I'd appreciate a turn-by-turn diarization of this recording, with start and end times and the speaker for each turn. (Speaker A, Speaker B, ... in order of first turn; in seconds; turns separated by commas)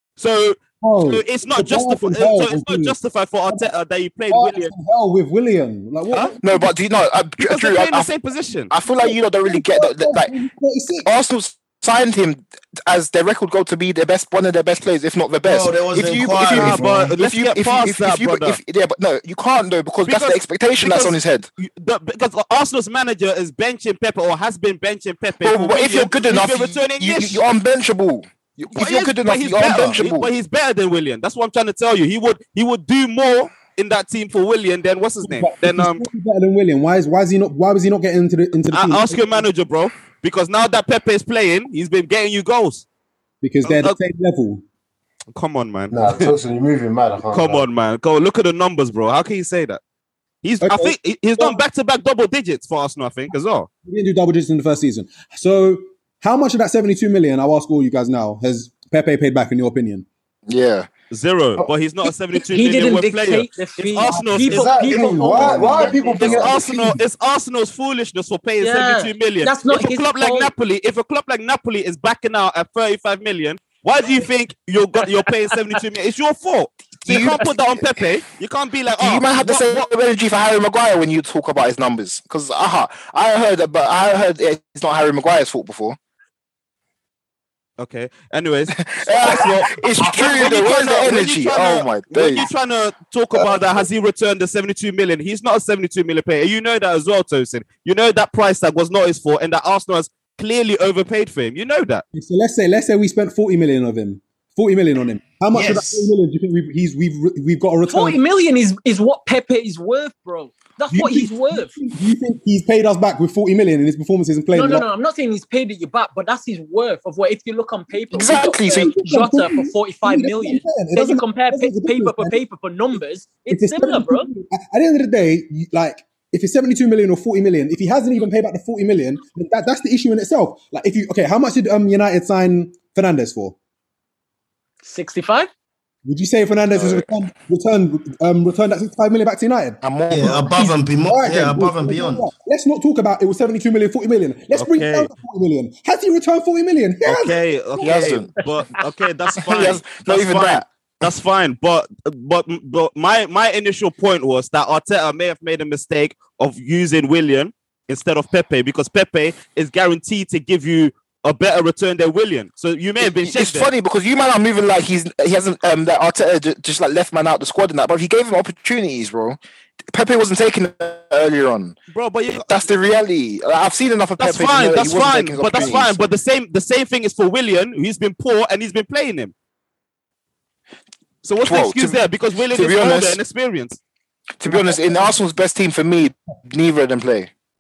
Speaker A: 0.2-4.7, Speaker B: 0.8-3.0, Speaker B: 4.3-6.7, Speaker C: 6.2-8.1, Speaker A: 7.4-8.7, Speaker C: 8.7-10.3, Speaker B: 9.0-11.1, Speaker C: 11.1-21.5, Speaker D: 15.4-17.1, Speaker A: 16.3-18.6, Speaker A: 20.1-27.4, Speaker C: 25.4-30.3, Speaker A: 28.8-36.0, Speaker B: 35.2-39.5, Speaker A: 38.7-42.9, Speaker B: 43.4-44.6, Speaker A: 43.6-44.0, Speaker A: 45.3-46.3, Speaker E: 45.9-47.6, Speaker A: 47.3-49.8, Speaker A: 50.4-53.7, Speaker B: 50.6-51.6, Speaker B: 53.9-60.1, Speaker C: 60.5-60.9, Speaker A: 61.1-79.8, Speaker F: 62.5-66.5, Speaker E: 64.1-67.0, Speaker B: 65.0-66.5, Speaker F: 68.6-70.5, Speaker C: 77.0-77.9, Speaker F: 77.1-77.5, Speaker C: 79.0-86.0, Speaker A: 87.8-102.0, Speaker C: 88.9-92.5, Speaker B: 102.2-108.2, Speaker D: 105.5-106.1, Speaker F: 107.9-111.8, Speaker B: 110.9-114.9, Speaker F: 114.5-124.3, Speaker C: 118.1-118.9, Speaker B: 118.7-122.4, Speaker B: 123.5-133.6, Speaker F: 134.8-135.5, Speaker B: 136.1-139.8, Speaker C: 136.8-137.1, Speaker C: 139.8-140.4, Speaker D: 140.1-142.3, Speaker F: 140.5-140.8, Speaker B: 141.1-147.4, Speaker A: 144.5-145.1, Speaker A: 147.1-163.7, Speaker C: 147.8-148.3, Speaker C: 149.4-151.1, Speaker C: 163.0-171.8, Speaker A: 171.9-172.7, Speaker C: 172.3-176.1, Speaker A: 174.2-179.3, Speaker A: 181.2-183.8, Speaker C: 181.4-183.2, Speaker C: 184.4-187.3, Speaker B: 184.5-184.8